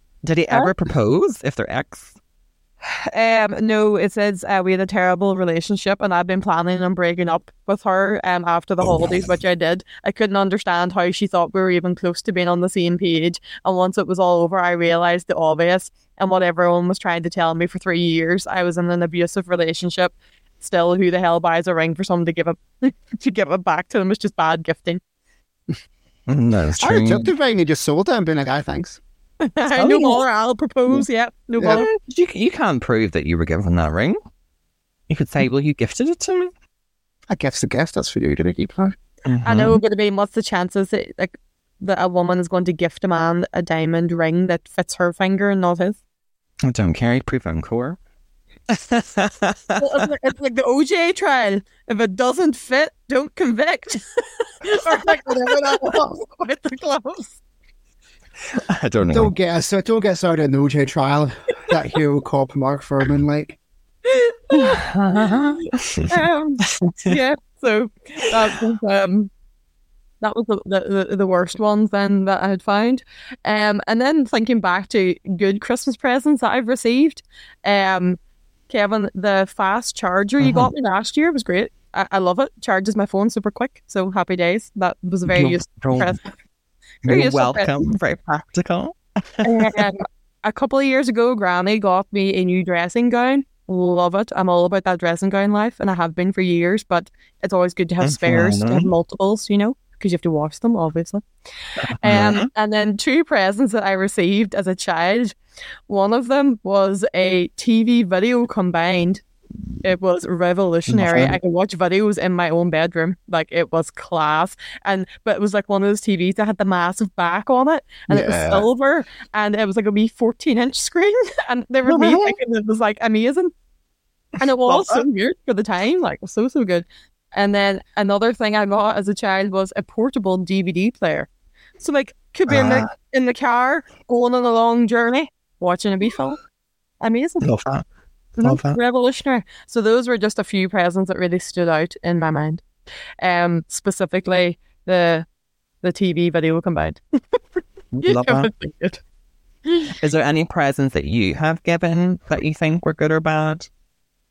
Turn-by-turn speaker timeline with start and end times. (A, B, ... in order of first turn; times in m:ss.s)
0:00.2-0:02.1 A
0:02.8-0:25.0 B
0:26.3-0:27.3 A
0:26.8-0:29.0 C
0:29.4-0:32.0 B
0:29.8-0:30.2 A
0:31.6-0:31.8 C
0:31.6-0:34.2 A
0:35.1-0:36.5 A
0:37.3-0:39.0 C
0:39.3-0:39.8 A
0:39.4-0:46.0 B
0:46.6-0:48.0 A
0:48.7-0:50.1 A
0:49.8-0:57.4 B
0:58.5-0:59.3 A
0:59.1-1:03.6 C
1:04.0-1:05.4 B
1:04.5-1:06.1 A
1:06.0-1:09.3 B
1:06.6-1:07.2 A
1:10.2-1:18.2 B
1:18.7-1:26.2 B
1:20.4-1:20.7 A
1:25.3-1:26.2 A
1:27.0-1:29.9 A
1:27.1-1:27.7 B
1:29.4-1:41.2 B
1:38.0-1:38.9 A
1:41.8-1:42.5 A
1:42.0-1:45.4 B
1:45.9-1:49.2 B
1:49.8-2:03.5 B
1:50.9-1:51.4 A
1:58.1-1:58.7 C
2:01.9-2:02.4 A
2:04.4-2:11.3 B
2:04.6-2:05.0 A
2:11.8-2:16.4 B
2:12.5-2:12.9 A
2:17.0-2:17.6 B
2:17.4-2:17.8 A
2:18.4-2:22.6 B
2:18.4-2:18.8 A
2:23.2-2:25.3 B
2:25.8-2:27.0 B
2:27.9-2:28.5 A
2:28.0-2:29.0 B
2:29.7-2:29.9 B
2:29.9-2:33.7 A